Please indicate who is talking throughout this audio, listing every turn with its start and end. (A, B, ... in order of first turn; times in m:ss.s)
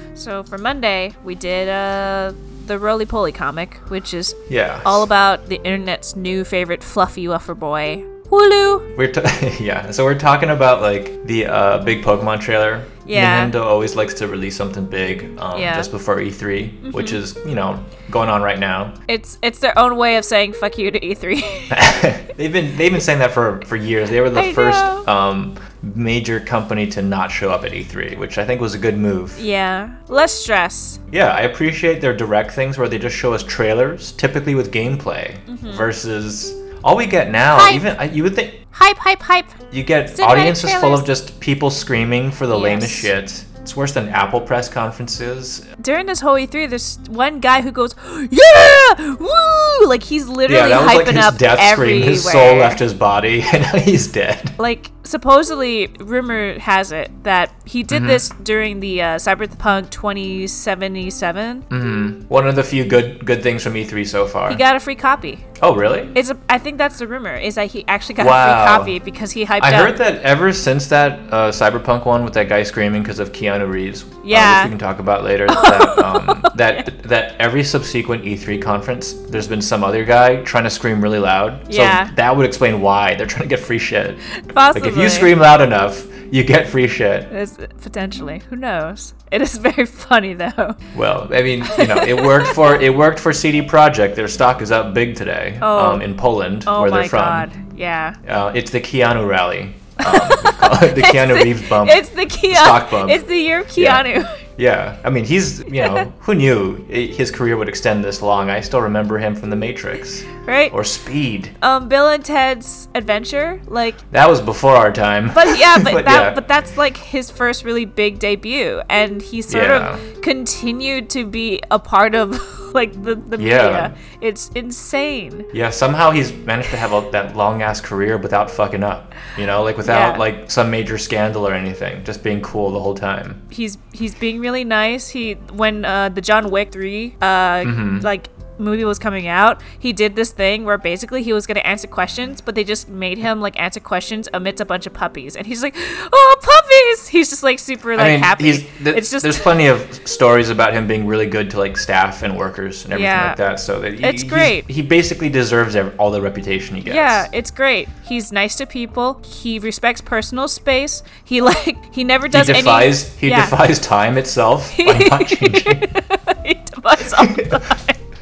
0:00.1-0:08.8 A
0:04.5-0:05.1 B
0:09.0-0:18.9 B
0:13.0-0:13.5 A
0:15.5-0:15.9 A
0:16.8-0:17.2 A
0:19.1-0:22.0 A
0:21.7-0:29.4 B
0:24.3-0:25.1 A
0:29.4-0:31.0 A
0:31.1-0:38.6 B
0:35.5-0:35.9 A
0:37.5-0:37.8 A
0:38.7-0:39.6 A
0:39.7-0:45.6 B
0:40.1-0:41.1 A
0:42.5-0:43.1 A
0:45.8-0:52.8 A
0:50.5-0:54.5 B
0:54.6-1:01.6 A
0:57.9-0:58.2 B
1:01.7-1:04.6 B
1:04.5-1:05.4 A
1:05.6-1:06.1 B
1:06.1-1:10.0 A
1:08.2-1:09.0 B
1:09.6-1:24.2 B
1:14.2-1:14.7 A
1:15.5-1:16.8 A
1:21.7-1:22.1 A
1:24.4-1:25.3 A
1:24.7-1:27.3 B
1:27.3-1:30.8 A
1:30.9-1:37.5 B
1:31.6-1:32.8 A
1:35.6-1:36.0 A
1:36.7-1:38.2 A
1:38.2-1:43.2 B
1:40.0-1:44.4 A
1:43.8-1:44.0 B
1:44.6-1:51.5 B
1:50.4-1:50.7 A
1:51.6-1:54.0 A
1:54.1-1:56.4 B
1:55.3-2:05.5 A
1:59.5-2:00.0 B
2:03.4-2:03.9 B
2:05.5-2:13.4 B
2:09.8-2:10.2 A
2:13.5-2:29.5 A
2:17.6-2:18.1 B
2:28.0-2:37.3 B
2:32.9-2:33.4 A
2:34.0-2:34.7 A
2:36.8-2:43.6 A
2:42.3-2:45.9 B
2:44.7-2:48.0 A
2:47.1-2:47.6 B